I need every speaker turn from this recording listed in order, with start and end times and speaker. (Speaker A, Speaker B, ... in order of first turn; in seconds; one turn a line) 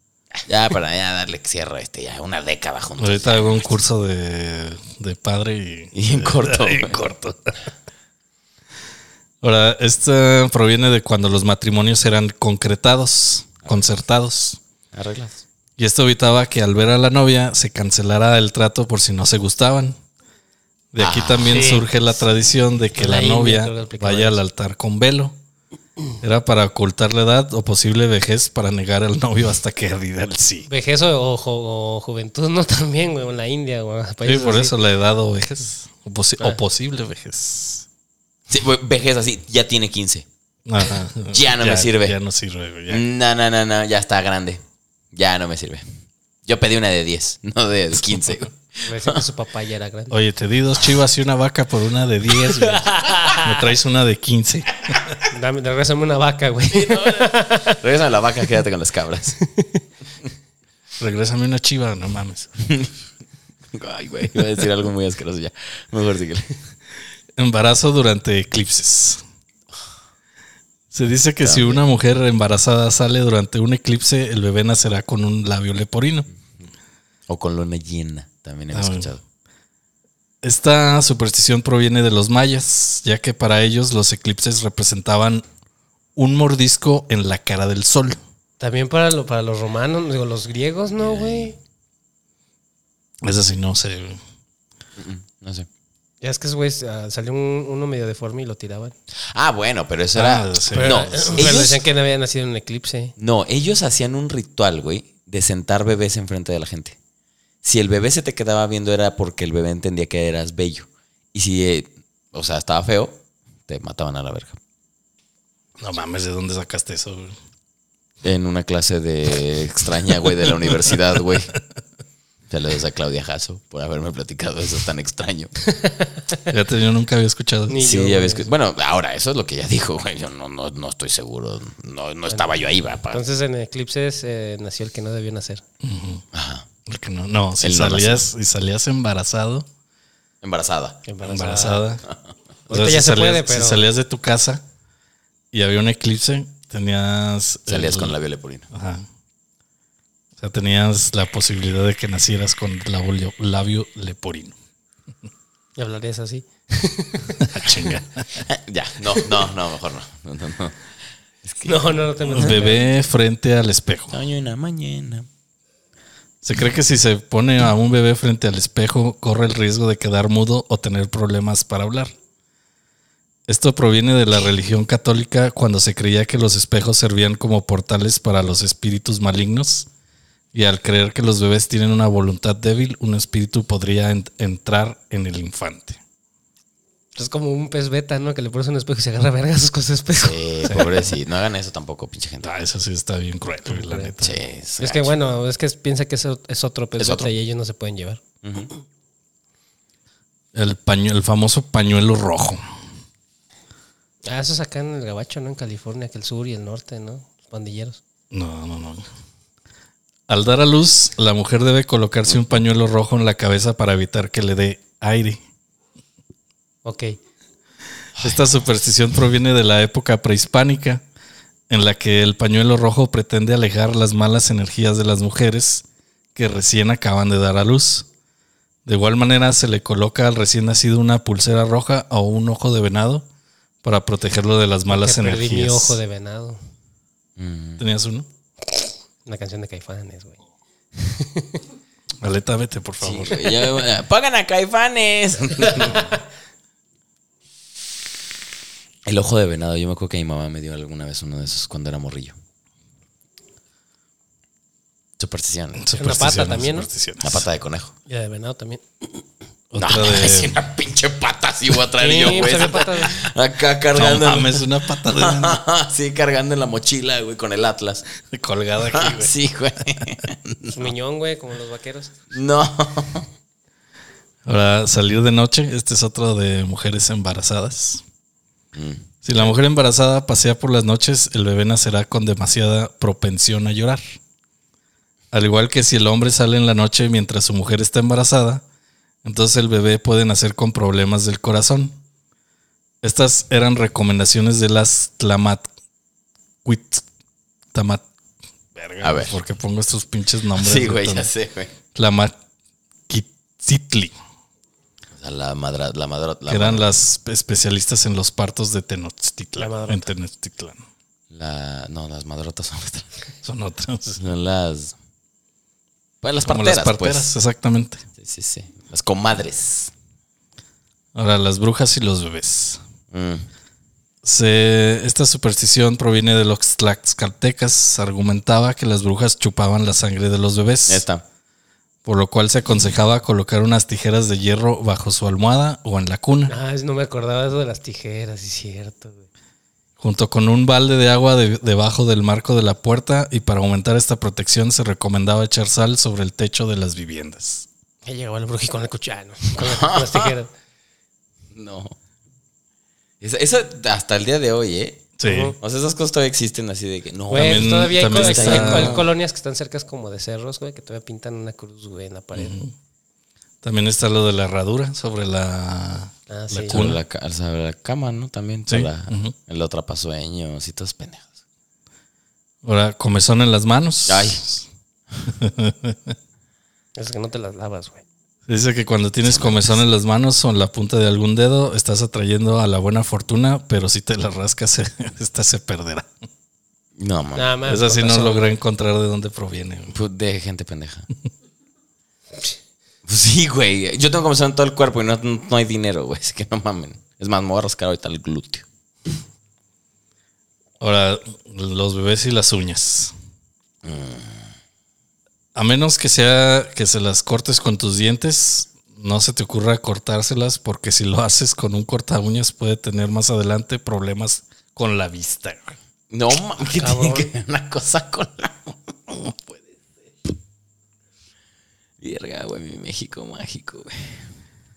Speaker A: 0.5-3.6
Speaker B: 3.0-7.5
Speaker A: 5.9-7.0
Speaker B: 9.4-14.6
Speaker A: 14.9-15.4
Speaker B: 15.8-20.0
Speaker B: 20.9-25.3
Speaker A: 21.0-21.8
Speaker C: 21.5-21.9
Speaker C: 22.9-24.4
Speaker B: 26.2-30.7
Speaker C: 30.7-34.8
Speaker B: 34.2-37.9
Speaker A: 38.5-40.2
Speaker B: 40.6-43.0
Speaker A: 41.3-42.1
Speaker A: 42.9-44.6
Speaker A: 45.1-45.8
Speaker A: 46.5-49.2
Speaker C: 48.9-50.1
Speaker B: 50.1-55.1
Speaker C: 52.6-53.6
Speaker C: 55.3-57.8
Speaker A: 56.7-59.4
Speaker C: 59.4-59.8
Speaker B: 61.0-62.5
Speaker A: 62.6-62.9
Speaker A: 63.7-66.5
Speaker B: 67.4-69.2
Speaker B: 70.9-76.3
Speaker A: 71.4-71.8
Speaker A: 77.3-79.2
Speaker B: 78.7-79.1
Speaker B: 80.4-85.4
Speaker B: 86.2-88.2
Speaker C: 88.6-91.5
Speaker A: 91.0-91.5
Speaker B: 93.2-94.2
Speaker A: 95.0-95.7
Speaker C: 96.2-98.9
Speaker A: 99.3-101.8
Speaker B: 100.1-101.7
Speaker C: 100.7-103.1
Speaker A: 103.2-107.0
Speaker A: 107.6-114.6
Speaker B: 115.8-117.3
Speaker A: 118.2-121.5
Speaker A: 122.5-125.5
Speaker C: 125.7-126.5
Speaker B: 126.5-127.8
Speaker C: 127.7-128.5
Speaker A: 127.8-133.2
Speaker C: 133.1-135.6
Speaker B: 135.8-136.2
Speaker A: 136.3-136.7
Speaker B: 136.8-139.7
Speaker A: 137.6-138.2
Speaker A: 140.4-141.0
Speaker C: 141.1-141.8
Speaker B: 141.2-142.0
Speaker C: 142.7-143.8
Speaker B: 142.7-144.6
Speaker B: 145.5-148.2
Speaker A: 147.7-148.7
Speaker B: 148.7-149.1
Speaker B: 150.4-154.5
Speaker C: 155.8-157.7
Speaker B: 157.4-158.3
Speaker A: 158.4-162.5
Speaker C: 161.6-162.9
Speaker B: 162.3-164.2
Speaker A: 164.1-165.3
Speaker B: 166.4-172.1
Speaker B: 173.5-179.9
Speaker B: 180.5-186.0
Speaker C: 187.2-191.0
Speaker A: 190.2-192.5
Speaker B: 192.4-194.4
Speaker C: 193.7-194.1
Speaker A: 194.2-195.2
Speaker C: 194.8-198.2
Speaker A: 197.0-197.3
Speaker A: 198.4-198.7
Speaker B: 200.5-202.6
Speaker C: 204.2-208.0
Speaker B: 208.3-209.0
Speaker B: 210.3-215.4
Speaker C: 216.8-217.2
Speaker A: 218.2-218.5
Speaker B: 218.2-221.0
Speaker B: 221.7-228.1
Speaker B: 228.8-233.2
Speaker B: 233.8-236.0
Speaker C: 234.9-236.6
Speaker A: 237.4-237.8
Speaker B: 237.8-238.3
Speaker C: 239.2-240.4
Speaker C: 240.9-241.6
Speaker B: 242.2-243.6
Speaker A: 243.0-246.1
Speaker A: 249.1-252.3
Speaker A: 255.2-256.0
Speaker B: 255.8-257.4
Speaker C: 255.9-256.9
Speaker A: 257.2-257.9
Speaker C: 258.1-258.8
Speaker B: 259.7-260.6
Speaker A: 259.8-268.1
Speaker C: 262.0-263.3
Speaker B: 263.9-265.6
Speaker B: 268.2-269.3
Speaker A: 268.8-270.9
Speaker C: 270.7-272.2
Speaker A: 272.3-273.3
Speaker B: 274.4-278.0
Speaker A: 278.7-279.5
Speaker B: 279.2-284.1
Speaker B: 285.3-288.6
Speaker B: 289.2-292.0
Speaker B: 293.0-295.7
Speaker B: 296.6-297.0
Speaker B: 297.7-298.0
Speaker B: 298.7-301.3
Speaker A: 299.0-299.4
Speaker A: 300.6-301.7
Speaker B: 301.9-302.3
Speaker B: 303.1-304.1
Speaker A: 305.2-306.9
Speaker B: 306.5-310.8
Speaker C: 309.6-310.1
Speaker A: 311.3-313.2
Speaker B: 313.4-314.2
Speaker A: 314.2-314.9
Speaker A: 316.2-317.3
Speaker B: 316.4-318.0
Speaker A: 318.2-319.9
Speaker B: 321.1-322.8
Speaker A: 323.1-323.5
Speaker B: 324.2-331.0
Speaker A: 330.9-331.2
Speaker B: 332.0-336.5
Speaker C: 336.5-339.3
Speaker B: 340.0-347.7
Speaker C: 348.0-350.5
Speaker A: 349.6-350.3
Speaker A: 351.5-351.9
Speaker A: 353.2-359.1
Speaker B: 355.2-355.5
Speaker C: 355.2-355.6
Speaker C: 357.3-362.6
Speaker B: 357.3-359.0
Speaker B: 362.3-362.7
Speaker B: 363.6-367.0
Speaker C: 366.3-366.9
Speaker A: 366.6-371.3
Speaker B: 368.7-369.3
Speaker B: 372.6-374.6
Speaker A: 374.1-374.4
Speaker B: 375.3-376.1
Speaker C: 376.9-378.0
Speaker B: 378.5-386.1
Speaker A: 379.2-379.8
Speaker A: 387.0-387.6
Speaker C: 387.4-388.5
Speaker B: 387.6-390.0
Speaker A: 389.9-391.1
Speaker A: 393.1-398.6
Speaker B: 400.8-403.1
Speaker A: 403.8-404.5
Speaker B: 405.5-415.7
Speaker A: 416.1-418.7
Speaker C: 416.7-417.3
Speaker B: 419.2-419.5
Speaker A: 422.0-424.2